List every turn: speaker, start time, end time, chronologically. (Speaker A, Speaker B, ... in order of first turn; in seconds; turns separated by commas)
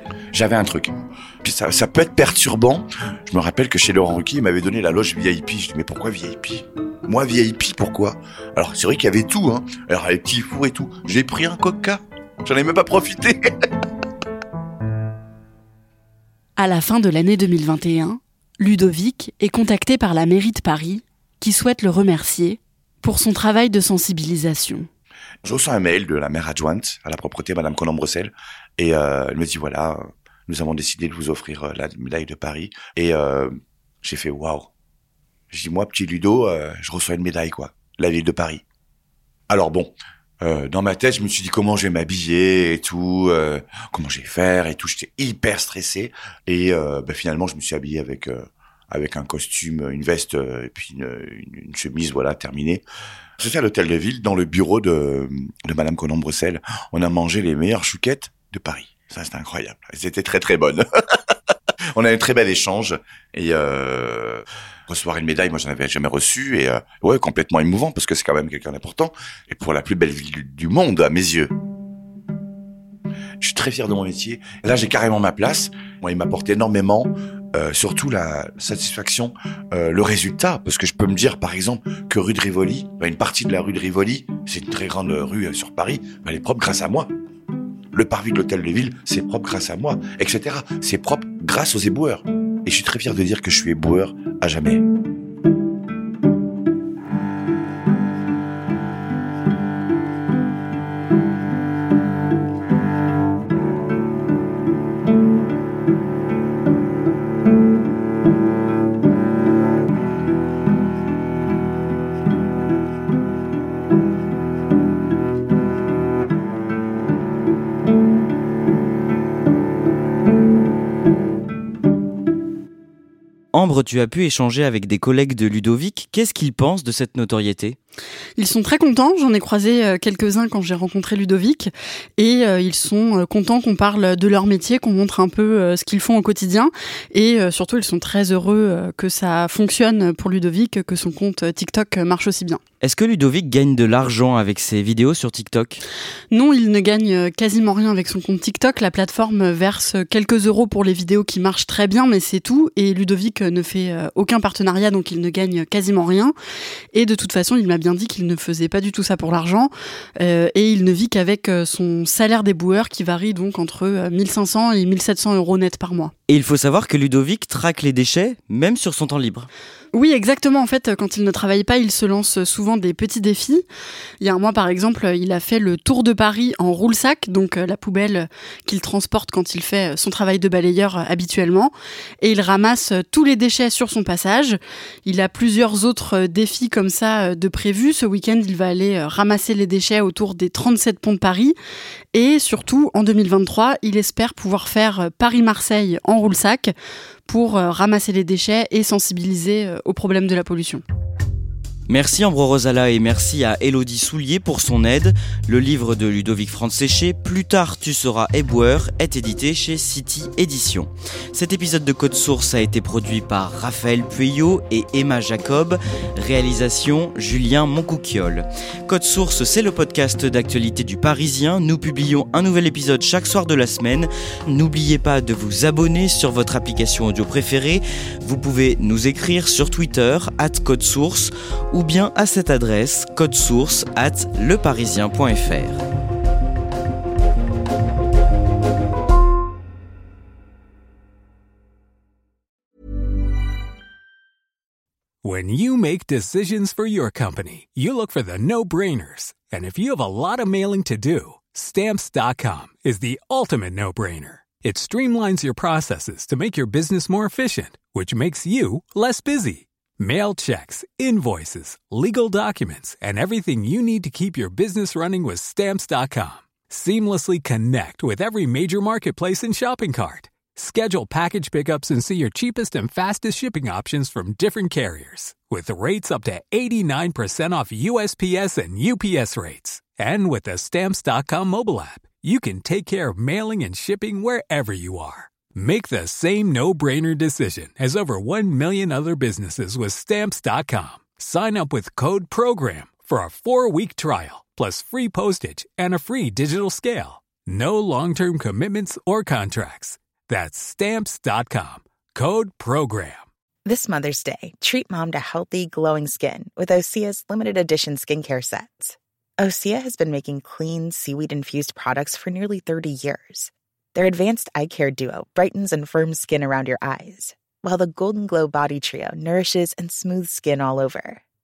Speaker A: 0.3-13.4, Speaker B: 16.6-24.9, Speaker A: 25.4-33.5, Speaker A: 34.0-34.7, Speaker A: 35.5-38.6, Speaker A: 39.5-52.8, Speaker A: 53.4-60.8, Speaker A: 61.9-71.5, Speaker A: 73.4-87.1, Speaker A: 87.9-94.8, Speaker C: 123.5-127.8, Speaker B: 128.4-142.6, Speaker C: 142.8-145.8, Speaker B: 146.3-156.3, Speaker B: 156.9-166.1, Speaker C: 166.3-169.5, Speaker B: 169.9-173.6, Speaker B: 174.2-191.5, Speaker B: 192.1-196.7, Speaker B: 197.3-200.8, Speaker C: 201.9-235.8, Speaker D: 245.2-303.2, Speaker E: 303.6-321.2